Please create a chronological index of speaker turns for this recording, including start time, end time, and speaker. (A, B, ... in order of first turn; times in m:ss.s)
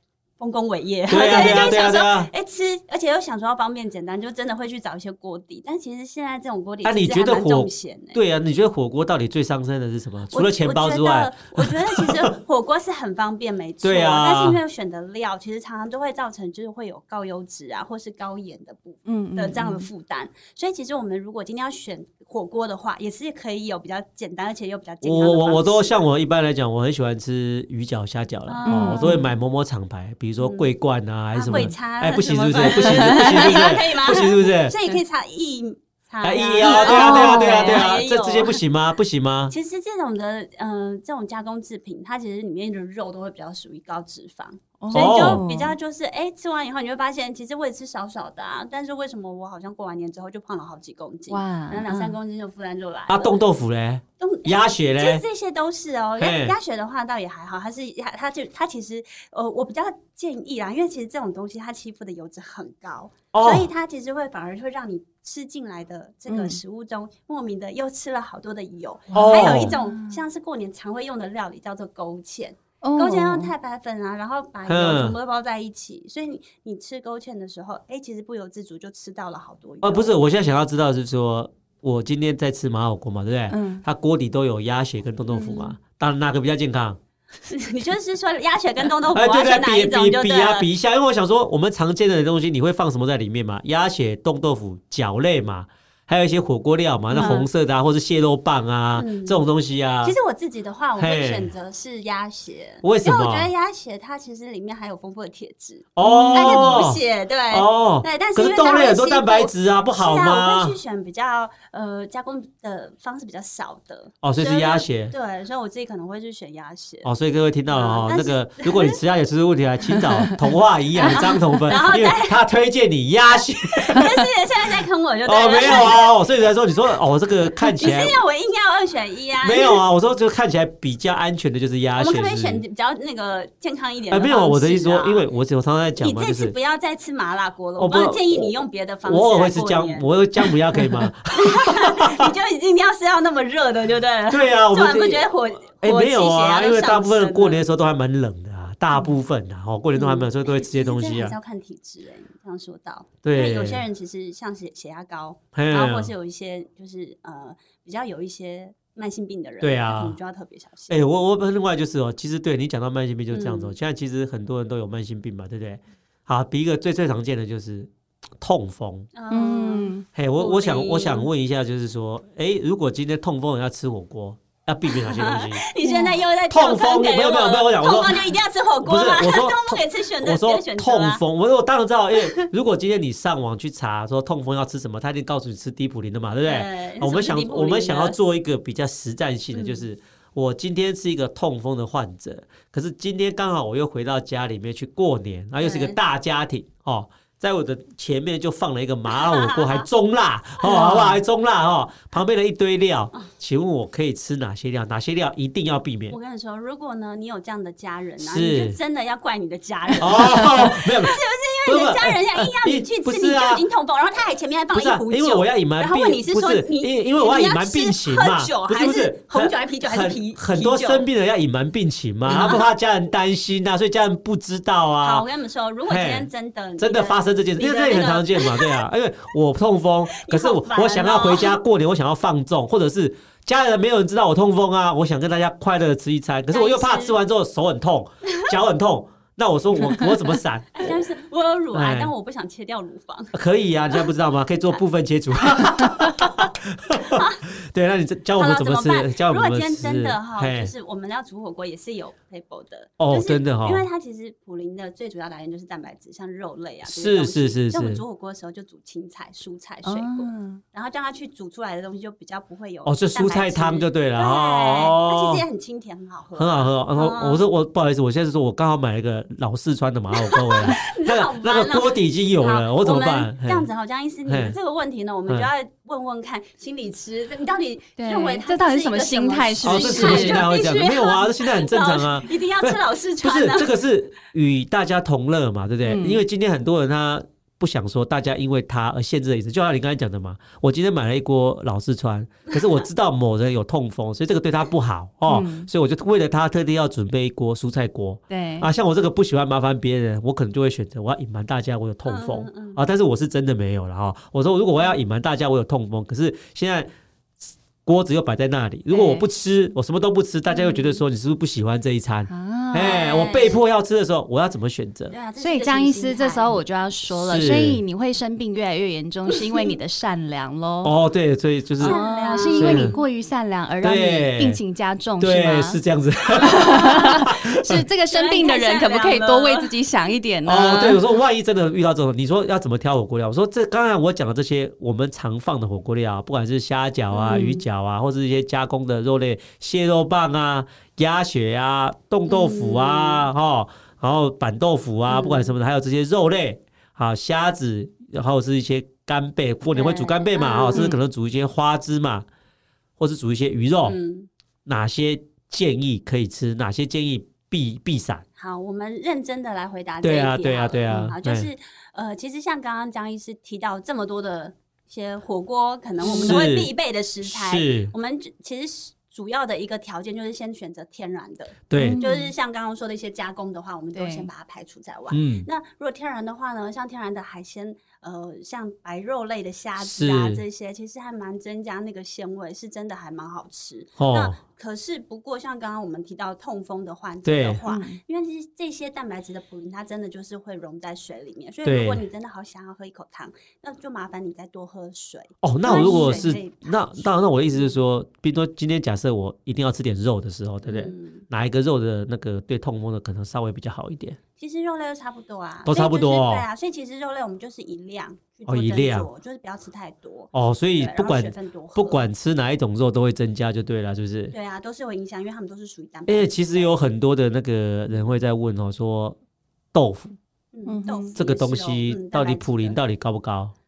0:00.4-0:08.2 A
0:01.1-0:02.3 B
0:06.8-0:12.3 B
0:10.3-0:26.0 A
0:13.8-0:14.6 B
0:19.0-0:19.9 C
0:25.0-0:34.8 B
0:28.5-0:29.3 A
0:28.7-0:29.2 C
0:30.4-0:30.7 A
0:31.3-0:38.6 A
0:32.6-0:33.7 C
0:36.2-0:39.5 B
0:36.6-0:37.9 C
0:39.5-0:53.4 A
0:44.8-0:45.7 C
0:44.9-0:45.4 B
0:51.3-0:52.2 C
0:53.1-0:55.2 B
0:54.2-1:20.2 A
0:56.2-0:56.6 B
1:03.3-1:03.7 B
1:06.3-1:06.6 C
1:09.1-1:09.7 B
1:09.1-1:10.2 C
1:12.8-1:13.5 C
1:14.7-1:15.2 B
1:19.8-1:27.0 B
1:23.5-1:23.8 C
1:25.3-1:25.8 A
1:27.5-1:30.7 A
1:29.1-1:40.2 B
1:37.1-1:37.4 C
1:37.2-1:37.4 A
1:38.9-1:39.4 A
1:40.0-1:57.1 A
1:41.0-1:41.5 B
1:42.8-1:43.5 B
1:46.0-1:50.8 B
1:46.0-1:46.9 C
1:54.2-1:55.1 B
1:57.0-2:04.3 B
1:57.7-1:59.0 A
2:00.1-2:00.4 C
2:01.0-2:02.4 A
2:01.1-2:01.4 C
2:03.6-2:06.1 A
2:05.2-2:08.2 B
2:07.8-2:09.8 A
2:09.4-2:12.6 B
2:11.9-2:15.2 A
2:14.1-2:16.5 B
2:16.0-2:20.1 A
2:17.8-2:18.5 B
2:19.0-2:22.3 B
2:21.3-2:27.6 A
2:24.3-2:31.3 B
2:29.9-2:41.0 A
2:33.2-2:33.8 B
2:35.5-2:36.1 B
2:39.6-2:40.2 B
2:40.9-2:49.1 B
2:43.3-2:43.7 A
2:49.1-2:51.3 A
2:49.3-2:50.0 C
2:50.1-2:55.6 B
2:54.9-3:01.2 A
2:55.8-2:56.2 C
2:56.5-3:26.2 B
3:06.4-3:08.2 A
3:09.5-3:09.8 A
3:15.6-3:16.0 A
3:19.1-3:19.9 A
3:20.6-3:21.2 C
3:26.1-3:41.0 A
3:28.2-3:28.8 B
3:30.0-3:33.6 B
3:34.7-3:45.2 B
3:42.3-3:42.7 A
3:45.0-3:48.8 A
3:45.9-4:01.0 B
3:50.1-3:51.6 A
3:56.5-3:57.2 A
4:00.7-4:03.3 A
4:01.7-4:02.1 B
4:03.3-4:10.7 B
4:05.4-4:07.4 A
4:08.4-4:27.4 A
4:13.0-4:13.8 B
4:16.8-4:18.0 B
4:19.8-4:20.6 C
4:22.8-4:25.4 B
4:26.4-4:33.7 B
4:30.1-4:43.7 A
4:34.2-4:34.6 B
4:38.0-4:40.4 C
4:39.6-5:06.9 B
4:45.8-4:46.2 C
4:55.3-4:55.7 C
4:58.3-4:58.7 C
5:02.0-5:02.8 A
5:07.4-5:15.1 B
5:08.9-5:09.2 C
5:12.3-5:13.1 C
5:12.8-5:13.6 A
5:15.1-5:16.6 A
5:15.4-5:21.0 C
5:17.1-5:17.8 B
5:19.3-5:19.7 A
5:20.8-5:22.0 B
5:21.8-5:23.0 A
5:21.8-5:25.8 C
5:22.5-5:22.9 B
5:23.8-5:24.6 B
5:25.2-5:27.8 B
5:26.4-5:27.2 A
5:26.4-5:31.0 C
5:28.1-5:29.7 A
5:30.4-5:52.2 B
5:37.1-5:37.4 A
5:37.2-5:37.6 C
5:42.2-5:43.3 A
5:45.1-5:45.5 A
5:49.7-5:50.9 A
5:50.7-5:51.0 C
5:53.0-5:54.0 B
5:53.8-5:54.3 A
5:54.6-5:58.2 B
5:58.4-6:37.7 A
6:00.0-6:01.5 B
6:06.0-6:07.9 B
6:06.0-6:06.4 C
6:11.7-6:12.0 B
6:11.8-6:12.3 C
6:13.9-6:14.3 C
6:15.1-6:15.5 B
6:19.8-6:20.4 B
6:24.0-6:24.4 B
6:27.2-6:27.6 B
6:27.6-6:28.0 C
6:31.6-6:32.0 B
6:35.4-6:44.2 B
6:35.7-6:36.2 C
6:40.6-6:41.2 A
6:44.4-6:52.0 A
6:45.6-6:46.4 B
6:48.5-6:49.1 B
6:50.3-6:54.3 B
6:54.3-6:56.8 A
6:56.1-6:59.2 B
6:59.7-7:00.2 B
7:00.5-7:02.8 A
7:00.6-7:01.1 C
7:01.1-7:03.5 B